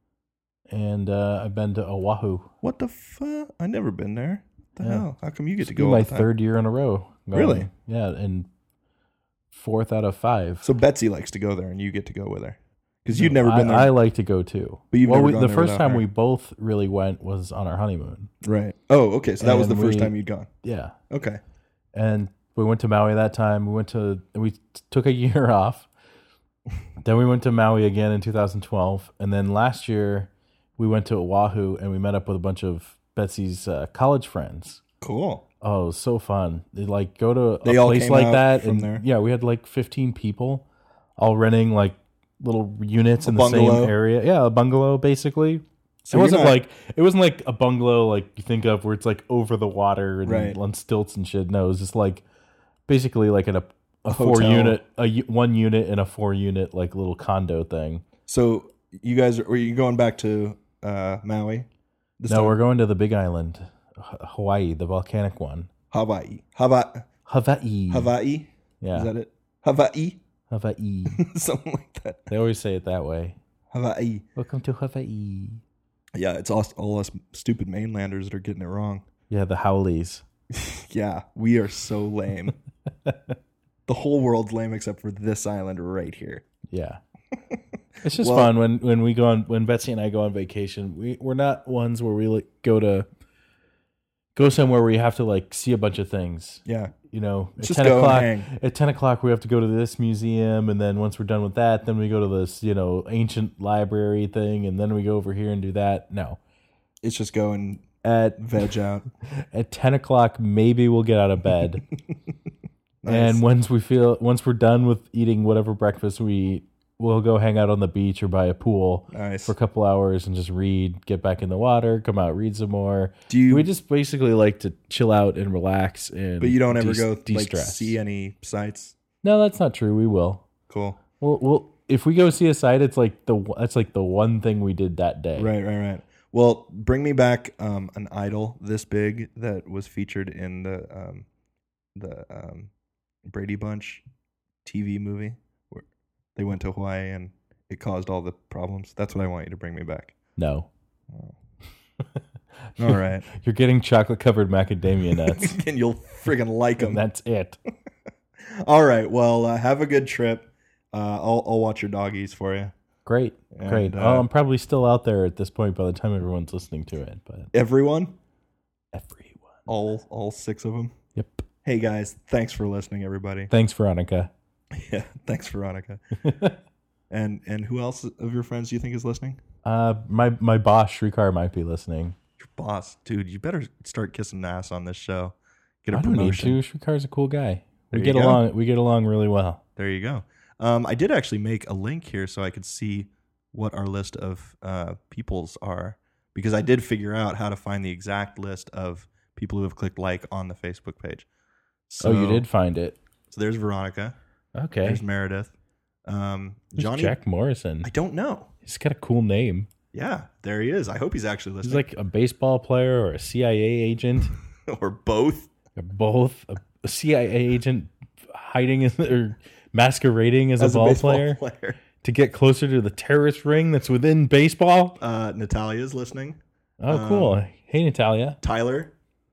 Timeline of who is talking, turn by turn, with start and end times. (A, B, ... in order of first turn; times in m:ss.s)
0:00.7-0:02.5 A
0:02.6-0:06.3 B
0:04.8-0:05.1 A
0:05.6-0:08.5 A
0:07.3-0:07.7 B
0:09.5-0:10.7 A
0:10.6-0:13.9 B
0:13.1-0:18.3 A
0:14.9-0:16.0 B
0:18.4-0:20.5 B
0:19.4-0:20.1 A
0:20.6-0:21.0 A
0:21.1-0:21.4 B
0:21.9-0:25.9 A
0:27.0-0:34.8 A
0:35.0-0:35.4 B
0:35.6-0:40.6 A
0:37.6-0:39.0 B
0:41.2-0:52.2 A
0:43.2-0:43.9 B
0:46.0-0:46.6 B
0:50.2-0:50.6 B
0:52.9-0:58.0 A
0:54.1-0:54.8 B
0:58.3-1:01.7 B
1:02.2-1:02.6 B
1:02.3-1:05.7 A
1:05.9-1:07.1 B
1:07.2-1:08.1 A
1:07.9-1:10.2 B
1:08.8-1:09.1 A
1:10.5-1:11.2 A
1:11.1-1:12.3 B
1:12.3-1:13.4 A
1:13.7-1:14.2 B
1:14.4-1:15.6 A
1:16.1-1:19.0 B
1:19.3-1:20.2 A
1:20.5-1:22.6 B
1:23.9-1:26.4 B
1:26.7-1:27.0 A
1:28.0-1:33.1 A
1:28.2-1:28.5 B
1:34.3-1:46.4 A
1:36.6-1:36.9 B
1:37.6-1:38.5 B
1:47.0-1:49.0 B
1:48.0-1:48.4 A
1:49.5-1:51.8 A
1:53.0-1:53.4 B
1:53.0-2:08.0 A
1:59.1-1:59.5 B
2:03.3-2:03.7 B
2:06.4-2:09.0 B
2:09.2-2:10.5 A
2:10.7-2:11.0 B
2:11.2-2:15.5 A
2:15.4-2:21.2 B
2:21.9-2:22.7 B
2:23.2-2:24.0 B
2:24.6-2:25.8 B
2:26.4-2:30.1 B
2:30.4-2:30.7 A
2:31.1-2:31.4 B
2:32.8-2:35.6 A
2:32.8-2:33.3 B
2:35.2-2:37.0 B
2:36.8-2:37.6 A
2:38.5-2:42.7 B
2:43.0-2:47.5 A
2:43.5-2:44.2 B
2:47.5-2:48.2 B
2:48.9-2:49.6 A
2:49.7-2:50.9 B
2:51.1-2:51.4 A
2:51.6-2:53.5 B
2:53.5-2:54.3 A
2:54.7-2:56.0 B
2:56.2-2:56.6 A
2:57.1-2:59.4 B
2:59.6-3:02.2 A
3:02.4-3:06.6 B
3:05.9-3:09.6 A
3:07.9-3:08.4 B
3:09.8-3:21.3 B
3:21.9-3:22.4 B
3:22.0-3:23.0 A
3:23.3-3:24.2 B
3:24.5-3:25.0 A
3:24.8-3:25.5 B
3:26.0-3:27.2 B
3:26.8-3:27.9 A
3:27.8-3:28.5 B
3:28.6-3:29.7 A
3:29.9-3:31.8 B
3:31.6-3:34.3 A
3:34.6-3:35.5 B
3:35.8-3:41.4 A
3:40.6-3:41.8 B
3:42.0-3:45.0 A
3:45.0-3:46.4 B
3:46.8-3:48.4 A
3:46.9-3:47.4 B
3:48.4-3:48.9 B